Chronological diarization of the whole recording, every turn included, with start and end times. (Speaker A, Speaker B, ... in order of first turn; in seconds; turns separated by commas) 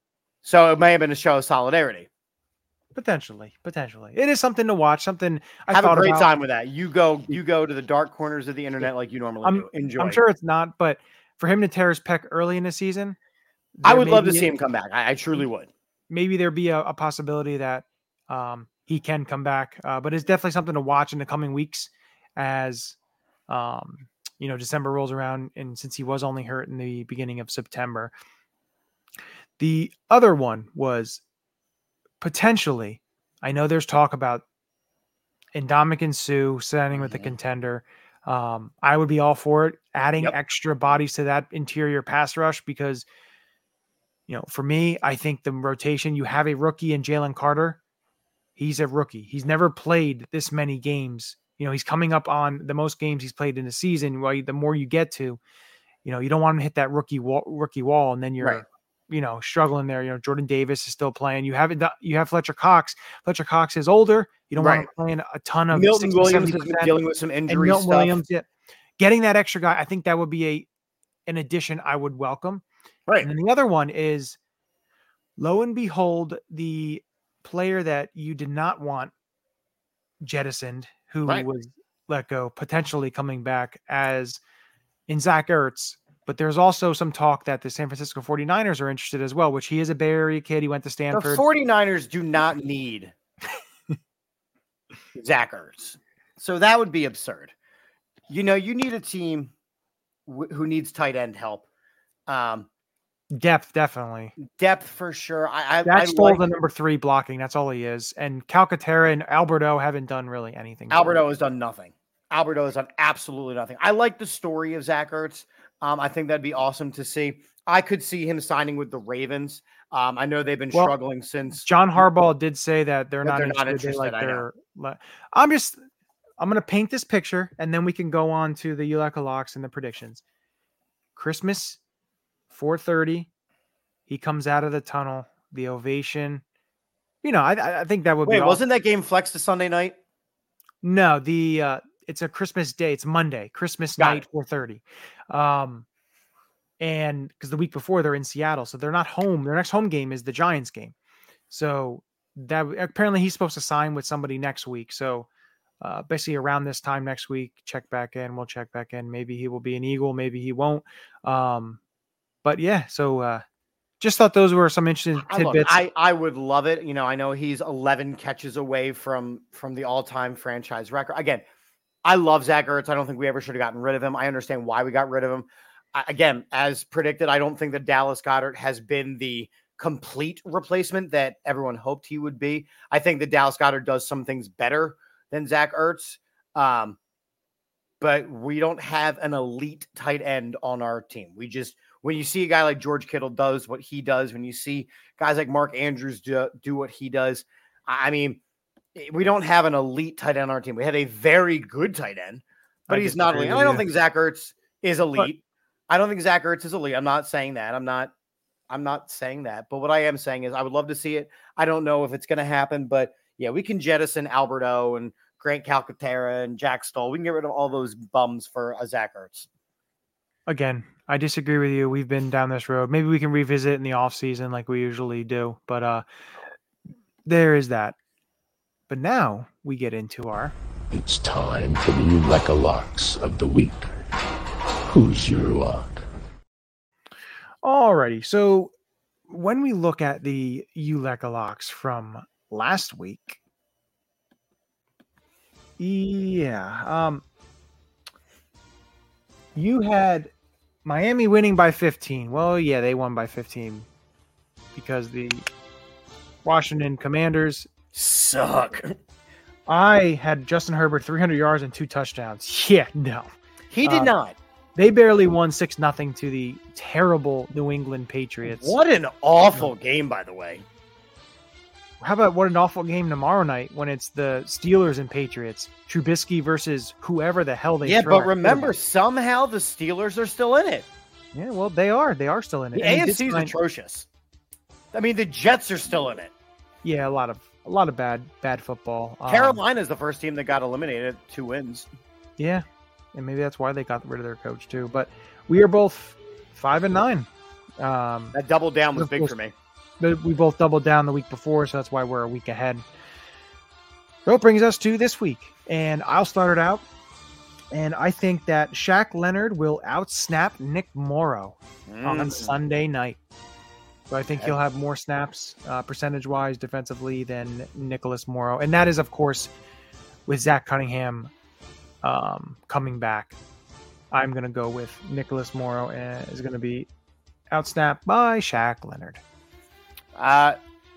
Speaker A: 0.4-2.1, Speaker B: 2.9-6.3, Speaker A: 5.7-10.2, Speaker B: 9.4-13.2, Speaker B: 13.8-14.5, Speaker A: 13.8-15.7, Speaker B: 16.1-23.0, Speaker B: 23.5-28.1, Speaker B: 29.6-31.2, Speaker B: 32.2-34.4, Speaker B: 35.5-43.0, Speaker A: 36.9-37.3, Speaker B: 44.3-47.8, Speaker B: 48.6-55.4, Speaker B: 56.0-66.9, Speaker A: 64.6-64.9, Speaker A: 65.7-68.2, Speaker B: 67.5-68.5, Speaker B: 69.0-70.7, Speaker B: 71.3-72.6, Speaker B: 73.2-74.4, Speaker B: 75.4-79.1, Speaker B: 80.2-84.4, Speaker B: 85.1-91.5, Speaker A: 91.1-93.1, Speaker A: 95.1-97.5, Speaker A: 98.3-99.5, Speaker A: 100.3-101.7, Speaker A: 102.3-102.7, Speaker B: 103.3-104.3, Speaker A: 104.4-106.5, Speaker B: 105.8-111.2, Speaker A: 110.9-122.1, Speaker B: 121.6-125.8, Speaker A: 123.2-124.5, Speaker B: 126.4-130.2, Speaker B: 131.2-131.8, Speaker B: 132.5-133.3, Speaker B: 134.1-136.4, Speaker B: 137.2-138.6, Speaker A: 138.2-140.0, Speaker B: 140.8-145.8, Speaker A: 144.0-144.2, Speaker B: 146.8-150.9, Speaker B: 151.5-155.3, Speaker B: 155.8-161.8, Speaker B: 162.4-163.4, Speaker B: 164.0-165.8, Speaker A: 165.2-171.4, Speaker A: 172.0-187.0, Speaker A: 188.0-198.4, Speaker A: 198.9-208.1, Speaker B: 202.9-203.8, Speaker A: 208.7-219.5, Speaker B: 220.5-226.0, Speaker B: 227.2-227.9, Speaker B: 228.9-230.5, Speaker C: 230.9-233.9, Speaker C: 234.9-236.0, Speaker B: 237.6-238.7, Speaker B: 239.3-243.4, Speaker B: 245.8-247.2, Speaker B: 249.6-250.3, Speaker B: 250.8-253.9, Speaker B: 254.7-255.4, Speaker B: 256.4-257.7, Speaker A: 257.9-258.9, Speaker B: 259.7-263.3, Speaker A: 263.7-264.4, Speaker B: 263.8-264.1, Speaker B: 264.8-268.8, Speaker A: 268.4-270.6, Speaker B: 272.0-278.7, Speaker A: 277.8-280.9, Speaker B: 281.3-283.6, Speaker A: 282.7-284.1, Speaker A: 284.9-286.3, Speaker B: 286.8-289.6, Speaker A: 289.3-291.9, Speaker B: 292.4-297.3, Speaker B: 297.8-298.4, Speaker A: 298.3-299.5, Speaker B: 298.9-299.3, Speaker B: 300.0-302.8, Speaker B: 304.2-306.8, Speaker B: 307.7-313.2, Speaker A: 311.9-312.6, Speaker B: 314.1-319.5, Speaker B: 320.3-321.3, Speaker B: 322.0-323.4, Speaker B: 324.1-326.9, Speaker B: 327.5-329.2, Speaker A: 330.1-330.6